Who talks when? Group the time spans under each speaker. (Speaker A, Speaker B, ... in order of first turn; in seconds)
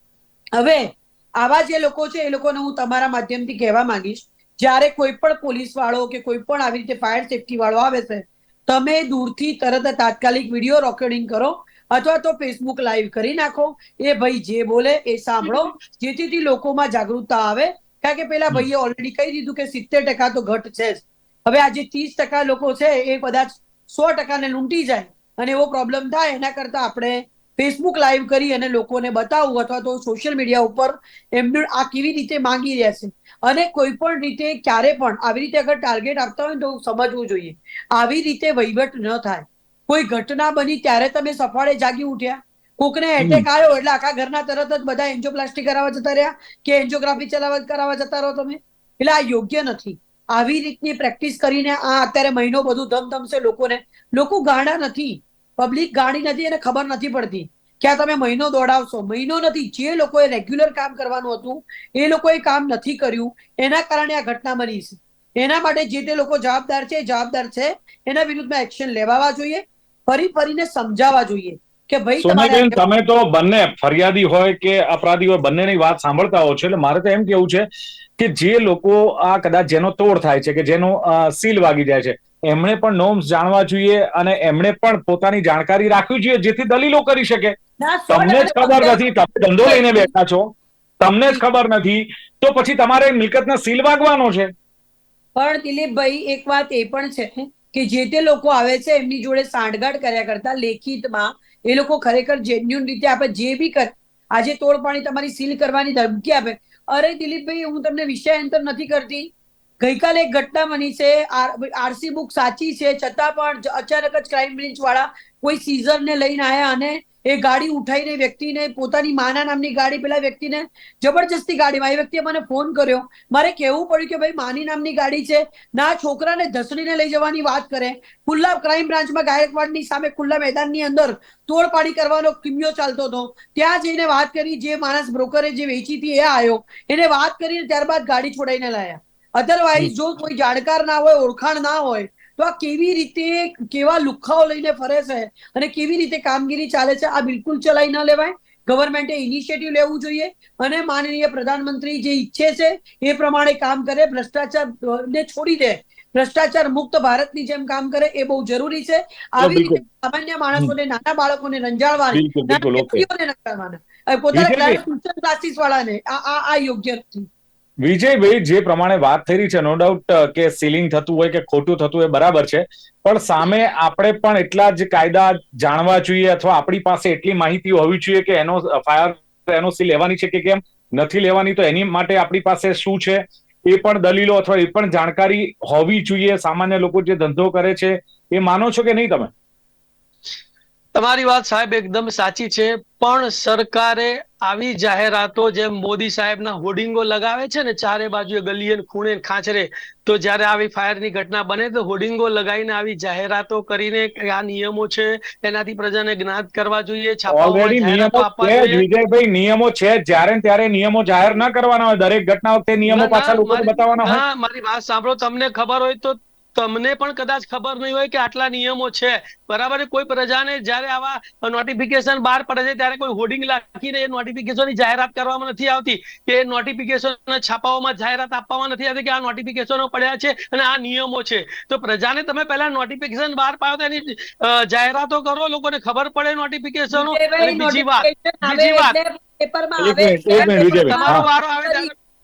Speaker A: 0.6-72.8, 87.8-89.0, 89.6-90.1, 95.4-167.3, 236.9-241.9
Speaker B: 15.4-15.7, 190.9-208.9, 212.9-239.0, 240.4-241.9
Speaker C: 43.2-43.5, 72.2-77.7, 78.2-87.5, 88.1-94.5, 159.4-159.8, 162.1-163.1, 164.3-164.8, 167.8-189.3, 207.3-214.2, 239.8-241.3